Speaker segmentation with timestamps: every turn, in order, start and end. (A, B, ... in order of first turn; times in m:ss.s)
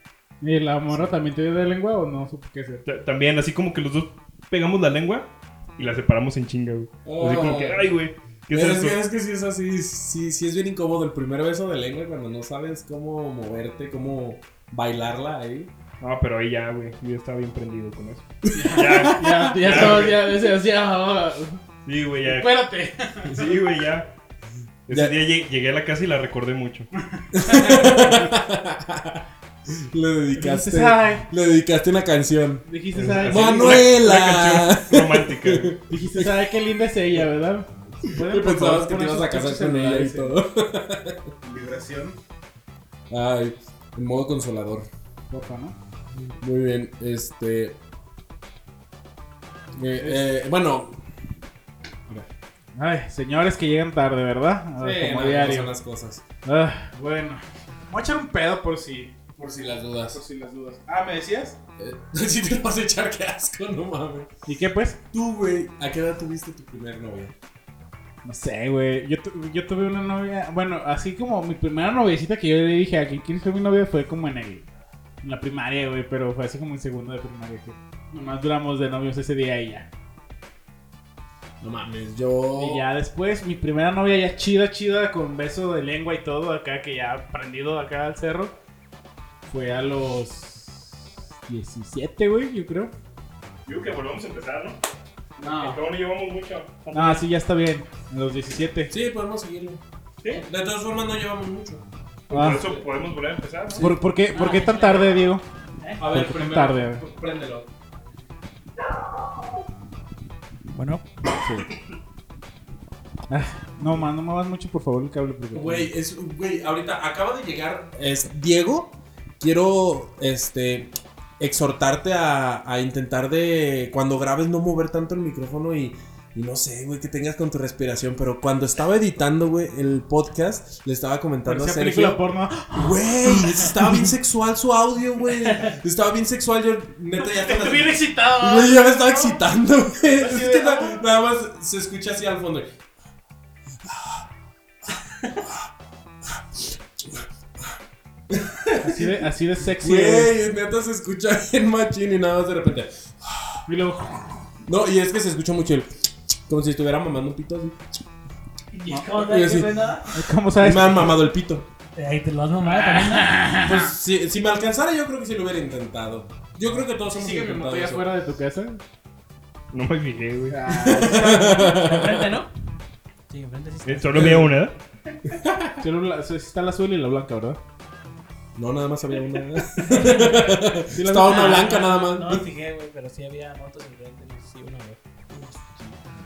0:00.4-0:02.8 A
0:02.9-0:09.0 B
0:07.0-0:07.9 C
0:08.5-0:15.7 C
0:16.0-0:20.2 B
0:18.5-0:20.2 C
0:18.5-0:21.6 A
0:21.9-0:22.6 B
0:22.3-0:23.3 A
0:23.2-0:24.1 B
0:24.9-0:26.9 B
0:27.2-0:28.3 A
0:27.3-0:32.6 C
0:30.3-0:31.3 A
0:32.6-0:33.8 A
0:33.0-0:35.8 B
0:33.2-0:36.5 C
0:35.9-0:40.4 A
0:38.0-0:41.3 C
0:41.4-0:42.2 A
0:43.1-0:44.9 C
0:45.3-0:45.8 A
0:46.3-0:47.8 C
0:49.8-0:51.0 C
0:50.0-0:50.2 A
0:52.8-0:55.7 A
0:54.8-0:56.2 C
0:56.4-0:59.2 A
0:59.4-1:00.2 C
1:00.1-1:01.6 A
1:01.8-1:04.3 C
1:04.5-1:05.0 A
1:05.1-1:07.3 C
1:08.2-1:14.7 A
1:15.2-1:19.9 A
1:21.6-1:22.9 C
1:22.6-1:28.5 A
1:29.5-1:32.9 A
1:33.7-1:34.8 B
1:35.4-1:35.8 A
1:35.4-1:37.2 B
1:36.9-1:38.9 A
1:38.9-1:41.8 C
1:42.3-1:43.9 B
1:42.3-1:42.6 A
1:42.5-1:42.8 C
1:43.7-1:44.0 C
1:43.8-1:45.4 A
1:44.3-1:45.2 D
1:45.8-1:46.1 D
1:46.0-1:47.7 C
1:46.1-1:47.0 A
1:50.7-1:51.0 D
1:51.4-1:51.7 A
1:53.3-1:55.9 A
1:55.5-2:12.2 C
2:11.4-2:14.1 A
2:12.7-2:22.7 C
2:17.4-2:19.4 A
2:20.2-2:21.0 A
2:23.8-2:24.2 C
2:24.9-2:25.7 C
2:26.2-2:27.8 C
2:28.3-2:29.2 C
2:28.8-2:30.3 A
2:29.8-2:33.6 C
2:33.7-2:34.5 A
2:34.6-2:38.0 C
2:38.7-2:40.1 D
2:39.1-2:39.9 C
2:40.1-2:41.2 A
2:40.5-2:41.7 C
2:42.0-2:43.4 D
2:42.7-2:43.9 A
2:43.5-2:48.1 C
2:47.1-2:48.8 A
2:49.7-2:50.6 B
2:50.5-2:51.8 A
2:50.7-2:52.3 C
2:51.3-2:52.5 D
2:53.3-2:54.5 D
2:53.8-2:54.8 B
2:54.1-2:54.5 C
2:55.3-2:55.8 C
2:55.8-2:57.6 A
2:58.6-3:02.5 C
2:59.8-3:00.7 D
2:59.9-3:01.8 A
3:01.2-3:06.0 D